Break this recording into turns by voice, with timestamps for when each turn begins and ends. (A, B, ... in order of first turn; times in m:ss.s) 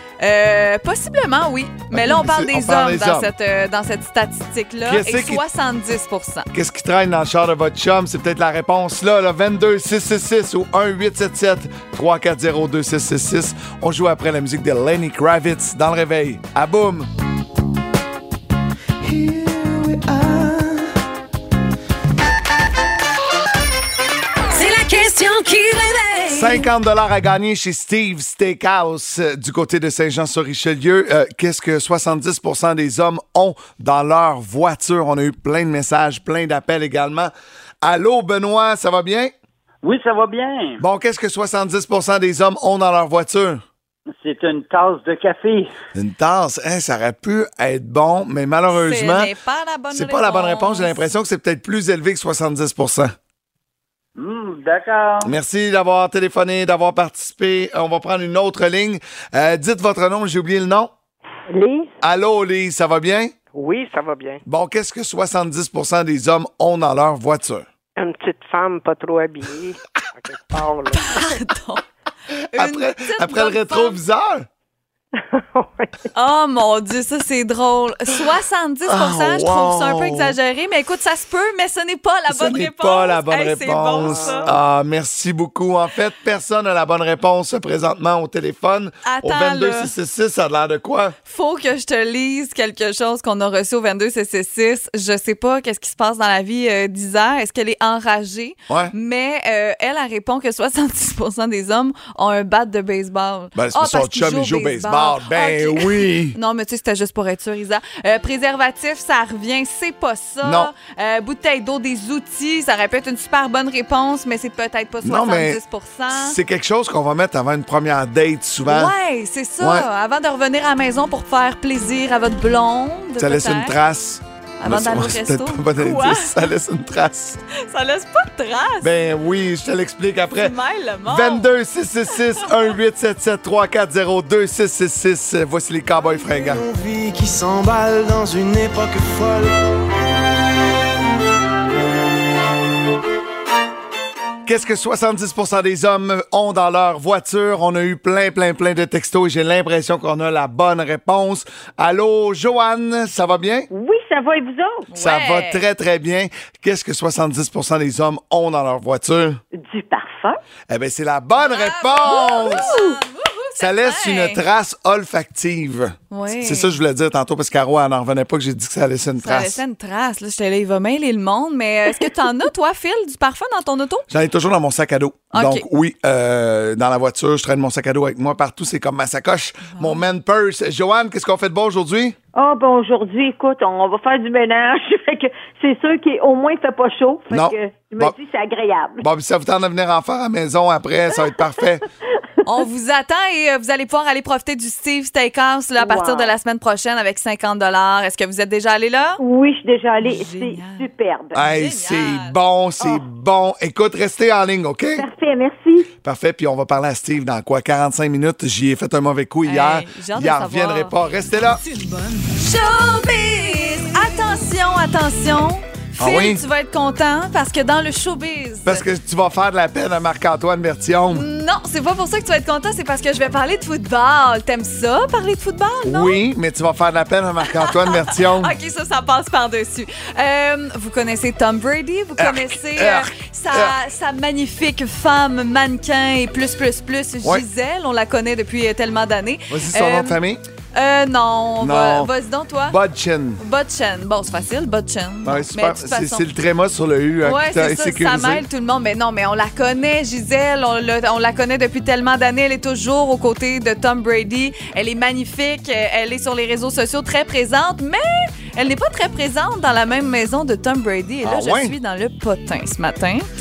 0:00.2-0:06.5 A
0:01.9-0:03.3 B
0:04.8-0:05.4 B
0:06.5-0:17.1 B
0:19.0-0:20.8 C
0:24.5-0:26.7 D
0:26.3-0:39.3 B
0:39.8-0:40.8 E
0:40.8-0:43.6 B
0:44.2-0:45.7 E
0:45.9-0:49.3 B
0:48.7-0:51.0 A
0:49.9-0:53.2 B
0:54.2-0:55.3 E
0:55.2-1:00.9 B
1:02.0-1:03.3 B
1:03.5-1:04.4 F
1:04.4-1:07.7 B
1:08.0-1:11.2 F
1:10.9-1:11.8 A
1:12.5-1:14.0 A
1:12.5-1:14.5 B
1:15.1-1:16.1 F
1:16.1-1:24.5 A
1:18.9-1:20.4 B
1:22.3-1:31.2 B
1:29.0-1:29.9 A
1:31.2-1:56.4 A
1:38.7-1:38.9 B
1:43.5-1:46.4 B
1:50.4-1:50.7 B
1:55.0-1:55.6 B
1:56.1-1:58.9 B
1:58.6-2:03.7 A
1:59.6-1:59.9 B
2:03.2-2:07.4 B
2:04.6-2:06.4 A
2:07.5-2:08.9 A
2:08.8-2:10.5 B
2:10.4-2:11.5 A
2:11.0-2:16.6 B
2:16.3-2:19.6 C
2:24.4-2:33.7 B
2:33.7-2:34.9 G
2:34.9-2:35.6 A
2:34.9-2:39.4 B
2:39.5-2:40.4 G
2:40.7-2:42.8 B
2:41.4-2:44.4 A
2:43.6-2:49.6 B
2:46.1-2:46.8 A
2:49.2-2:54.0 A
2:54.1-3:02.2 B
2:55.3-2:55.6 A
2:59.7-3:00.0 A
3:02.3-3:09.0 G
3:07.3-3:08.1 B
3:09.0-3:11.8 B
3:12.4-3:19.2 A
3:15.8-3:16.3 G
3:19.2-3:21.4 G
3:20.0-3:22.4 A
3:21.3-3:25.0 B
3:25.0-3:25.9 G
3:26.0-3:31.6 B
3:29.4-3:30.9 A
3:32.3-3:38.8 A
3:36.0-3:36.4 B
3:38.6-3:41.3 B
3:41.1-3:46.2 A
3:45.8-3:48.6 B
3:47.5-4:00.2 A
3:52.2-3:53.8 B
3:59.5-4:00.4 B
4:00.7-4:02.8 A
4:01.6-4:02.1 B
4:02.6-4:03.4 B
4:03.4-4:06.2 A
4:05.2-4:08.4 B
4:07.2-4:23.2 A
4:21.2-4:21.8 B